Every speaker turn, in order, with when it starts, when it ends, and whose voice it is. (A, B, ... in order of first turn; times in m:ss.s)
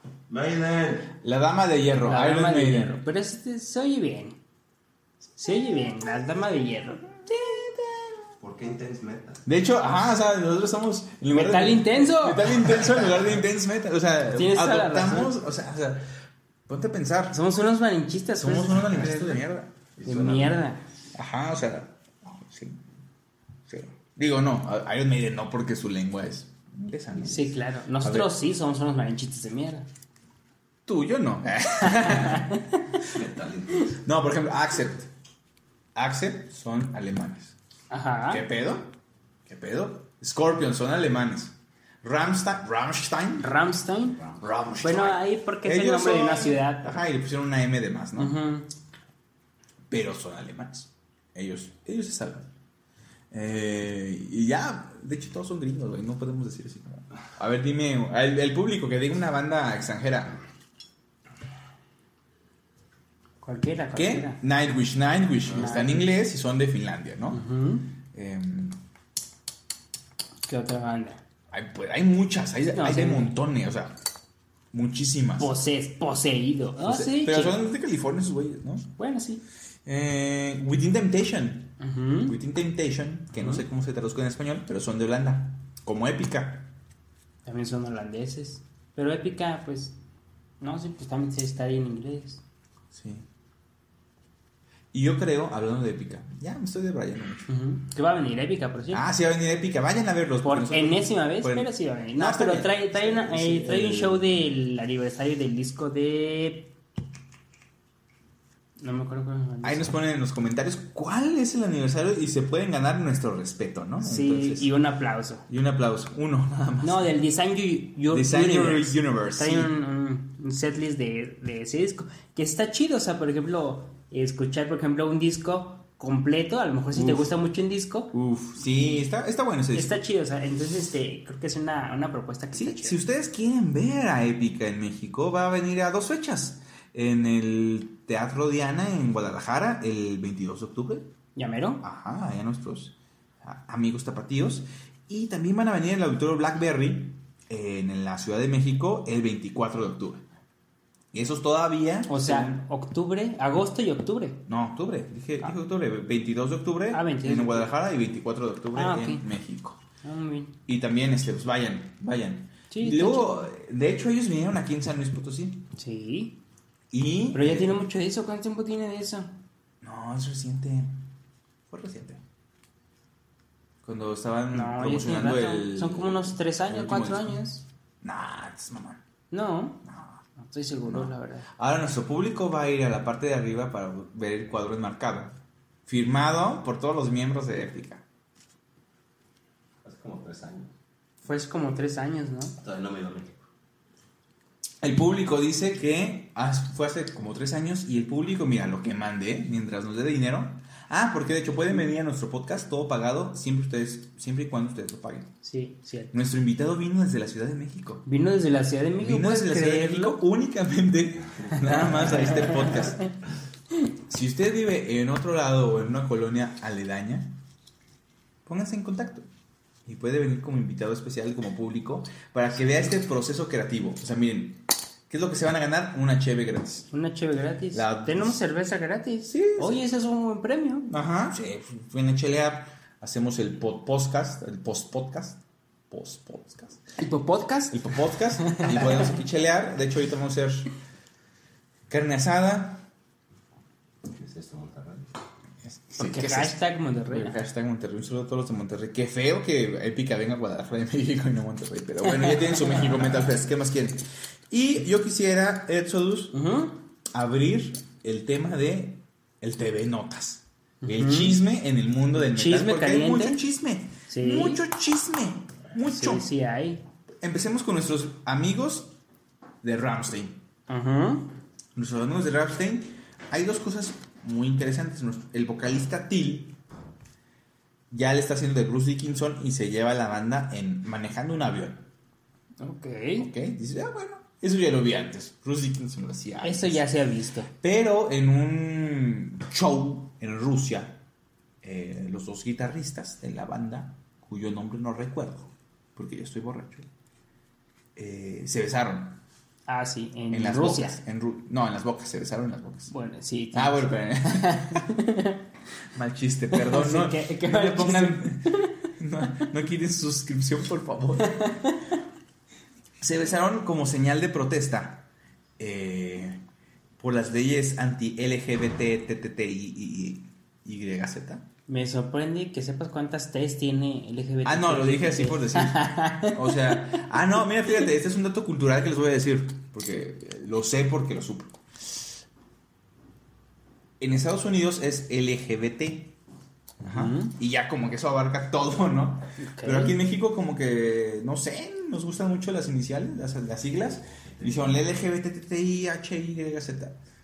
0:00.3-0:01.1 A
0:01.2-0:03.0 B
0:02.0-0:04.4 C
0:05.4-0:07.1 C
0:07.2-0:08.2 B
0:08.4-0:09.4 A
0:09.4-0:16.1 B
0:11.3-0:12.9 C
0:14.3-0:15.3 C
0:16.7-0:17.4 B
0:17.3-0:19.1 C
0:18.4-0:19.7 B
0:18.8-0:19.4 A
0:20.0-0:20.6 A
0:20.0-0:20.8 C
0:21.1-0:22.8 B
0:23.7-0:28.3 B
0:27.2-0:29.9 C
0:30.8-0:32.6 B
0:31.8-0:32.8 C
0:33.0-0:34.0 A
0:34.0-0:35.1 B
0:35.9-0:37.5 B
0:37.9-0:38.4 C
0:38.3-0:38.9 B
0:39.4-0:43.6 B
0:43.4-0:44.2 C
0:44.4-0:48.4 B
0:44.8-0:47.0 C
0:48.2-0:48.7 C
0:49.9-0:52.5 B
0:53.3-1:00.4 B
1:03.4-1:04.4 C
1:03.9-1:07.4 B
1:05.5-1:06.1 C
1:07.3-1:07.9 C
1:08.1-1:08.8 B
1:10.4-1:11.2 C
1:11.5-1:14.0 B
1:12.7-1:13.3 C
1:14.7-1:15.5 B
1:15.4-1:17.6 C
1:16.8-1:18.9 B
1:19.0-1:19.4 C
1:19.8-1:26.7 B
1:21.8-1:22.4 C
1:23.4-1:23.6 C
1:27.4-1:30.0 C
1:30.6-1:32.4 C
1:32.9-1:33.2 B
1:34.9-1:37.5 B
1:37.5-1:39.0 C
1:38.9-1:44.4 B
1:40.4-1:46.7 C
1:48.8-1:49.9 C
1:49.6-1:54.7 B
1:54.0-1:55.4 C
1:55.5-1:57.1 B
1:56.8-2:09.0 C
1:58.1-1:59.7 B
2:06.9-2:07.3 B
2:08.1-2:10.0 B
2:09.7-2:13.0 C
2:12.5-2:21.1 B
2:21.4-2:21.8 C
2:21.8-2:30.2 B
2:31.1-2:32.5 B
2:32.1-2:34.4 C
2:34.5-2:39.8 B
2:36.9-2:37.7 C
2:38.7-2:39.2 C
2:40.0-2:40.6 C
2:40.7-2:45.7 B
2:42.7-2:43.5 C
2:45.8-2:46.4 C
2:46.9-2:47.8 B
2:47.3-2:49.3 C
2:49.8-2:51.0 B
2:51.7-2:52.2 B
2:53.8-2:57.4 B
2:54.5-2:57.6 C
2:58.0-2:59.0 B
2:59.3-2:59.8 C
2:59.8-3:00.2 B
3:00.4-3:01.5 C
3:00.8-3:08.0 B
3:09.8-3:10.7 A
3:11.2-3:12.5 C
3:12.6-3:13.4 A
3:14.8-3:25.3 B
3:25.4-3:26.1 C
3:26.1-3:28.0 B
3:28.0-3:30.2 C
3:29.0-3:33.0 B
3:31.6-3:33.1 C
3:34.1-3:37.4 B
3:38.4-3:39.3 B
3:39.8-3:46.9 B
3:46.9-3:50.9 C
3:47.7-3:48.4 B
3:49.3-3:49.8 B
3:50.9-3:56.8 B
3:57.0-3:59.2 C
3:57.7-4:00.7 B
4:01.9-4:02.8 B
4:04.0-4:05.1 A
4:05.6-4:16.3 B
4:06.0-4:07.4 C
4:12.0-4:13.2 C
4:16.3-4:16.8 C
4:17.1-4:26.3 B
4:20.8-4:21.4 C
4:22.2-4:23.4 C
4:24.1-4:24.6 C
4:25.8-4:26.8 C
4:27.2-4:28.9 B
4:29.6-4:30.4 B
4:30.7-4:31.3 C
4:31.8-4:36.6 B
4:37.9-4:41.8 B
4:42.6-4:43.3 C
4:43.2-4:46.8 B
4:46.4-4:47.5 C
4:47.6-4:51.0 B
4:51.6-4:56.9 B
4:58.0-4:59.2 B
4:59.7-5:01.0 C
5:00.3-5:02.9 B
5:02.9-5:05.4 C
5:03.5-5:04.8 B
5:05.9-5:11.6 B
5:06.5-5:08.8 C
5:11.2-5:11.9 C
5:13.0-5:16.4 B
5:17.0-5:21.5 B
5:21.7-5:27.0 C
5:24.4-5:32.1 B
5:34.0-5:36.2 B
5:36.8-5:47.0 B
5:36.9-5:37.3 C
5:39.4-5:40.0 C
5:44.3-5:44.8 A